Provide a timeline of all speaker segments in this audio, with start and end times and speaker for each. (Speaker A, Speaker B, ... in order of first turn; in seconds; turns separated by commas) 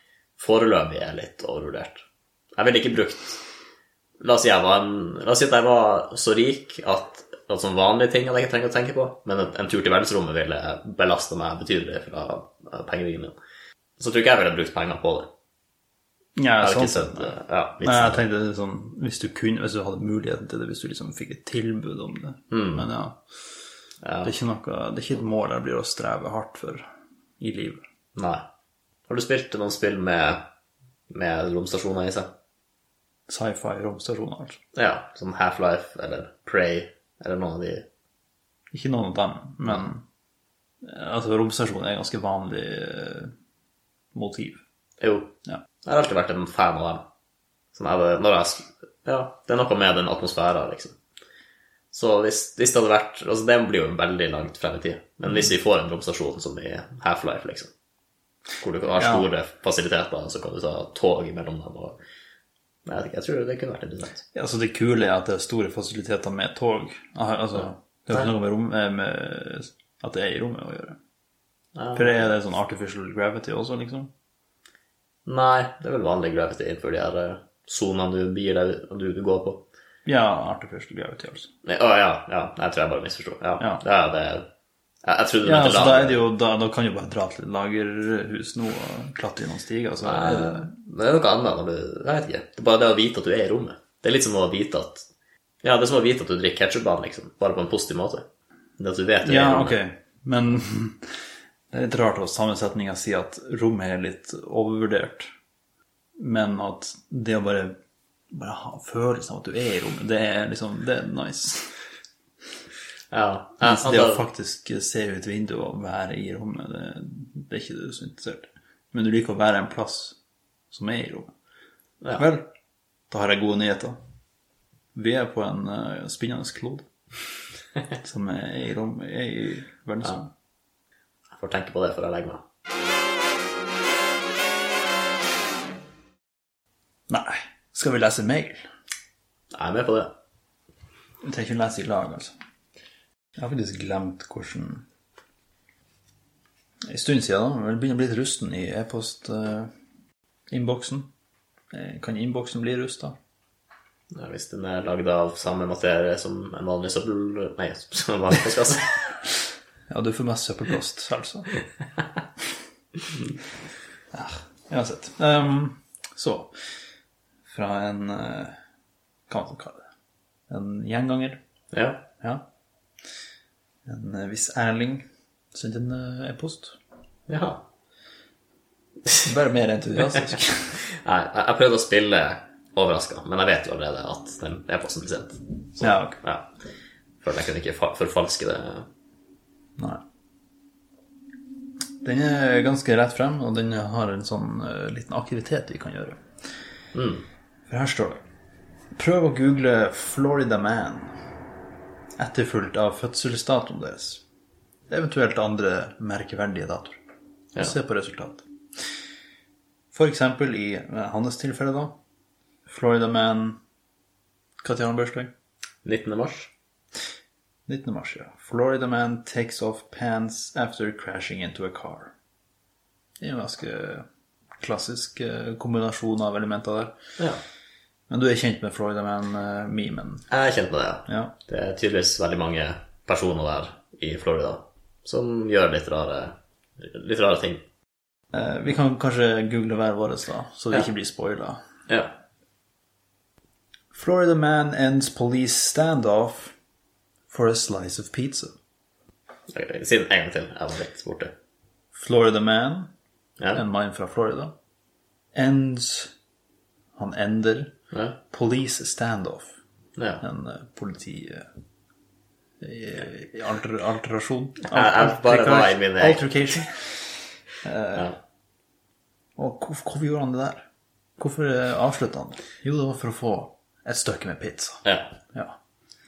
Speaker A: 0.4-2.0, Speaker A: 2.6-3.4, Speaker A: 4.2-13.3, Speaker A: 14.0-15.3, Speaker B: 16.4-23.2, Speaker A: 16.6-18.2, Speaker A: 22.5-22.9, Speaker A: 24.0-24.3, Speaker B: 24.2-26.9, Speaker B: 27.4-27.8, Speaker A: 28.1-28.4, Speaker A: 29.1-30.4, Speaker A: 31.1-32.3, Speaker B: 33.3-34.6, Speaker A: 34.8-37.9, Speaker B: 38.7-40.0, Speaker B: 40.8-43.3, Speaker B: 44.1-44.6, Speaker A: 45.0-47.1, Speaker A: 47.7-51.0, Speaker A: 51.9-57.7, Speaker A: 58.6-62.0, Speaker B: 59.0-59.3, Speaker A: 62.9-64.2, Speaker B: 64.3-71.0, Speaker A: 71.8-72.2, Speaker B: 72.0-74.1, Speaker A: 75.3-79.6, Speaker B: 80.1-81.5, Speaker A: 81.6-84.5, Speaker A: 85.0-86.3, Speaker B: 85.4-90.7, Speaker A: 90.0-95.1, Speaker A: 95.6-98.2, Speaker A: 98.8-99.8, Speaker B: 99.2-101.1, Speaker B: 101.7-105.3, Speaker B: 106.2-107.8, Speaker B: 108.3-111.7, Speaker A: 113.1-114.2, Speaker B: 113.6-120.2, Speaker B: 120.7-121.3, Speaker B: 122.2-122.5, Speaker B: 123.1-124.0, Speaker B: 125.0-126.8, Speaker B: 128.0-130.3, Speaker A: 131.3-132.4, Speaker B: 137.1-138.6, Speaker A: 139.5-140.1, Speaker B: 141.2-142.3, Speaker B: 143.4-144.9, Speaker B: 146.9-149.7, Speaker B: 150.5-151.1, Speaker B: 151.7-153.2, Speaker A: 154.1-159.1, Speaker B: 159.9-161.5, Speaker B: 164.1-166.5, Speaker B: 167.5-168.6, Speaker B: 169.3-169.8, Speaker B: 170.5-171.4, Speaker A: 171.7-172.1, Speaker B: 173.9-176.8, Speaker A: 177.3-177.7, Speaker B: 179.2-180.8, Speaker A: 180.9-186.5, Speaker B: 185.8-186.2, Speaker A: 187.2-188.9, Speaker B: 192.0-196.2, Speaker A: 196.9-197.2, Speaker B: 197.7-198.2, Speaker B: 198.9-201.1, Speaker B: 202.2-204.2, Speaker B: 204.9-207.0, Speaker B: 207.6-208.4, Speaker B: 209.9-211.9, Speaker B: 212.7-213.6, Speaker B: 214.6-215.3, Speaker A: 215.8-216.5, Speaker B: 217.7-222.1, Speaker B: 223.2-224.1, Speaker B: 224.6-227.0, Speaker B: 228.1-230.3, Speaker A: 230.3-237.6, Speaker B: 231.1-231.3, Speaker B: 238.3-241.6, Speaker A: 241.9-242.1, Speaker B: 243.9-246.6, Speaker B: 247.3-248.5, Speaker A: 249.5-251.3, Speaker B: 251.9-252.9, Speaker B: 253.5-254.5, Speaker B: 255.3-256.1, Speaker B: 257.0-257.7, Speaker A: 257.9-258.2, Speaker B: 258.3-259.6, Speaker A: 260.0-260.2, Speaker B: 260.2-261.5, Speaker B: 262.6-268.1, Speaker A: 264.6-266.6, Speaker B: 269.4-270.7, Speaker B: 271.2-275.6, Speaker A: 274.9-275.2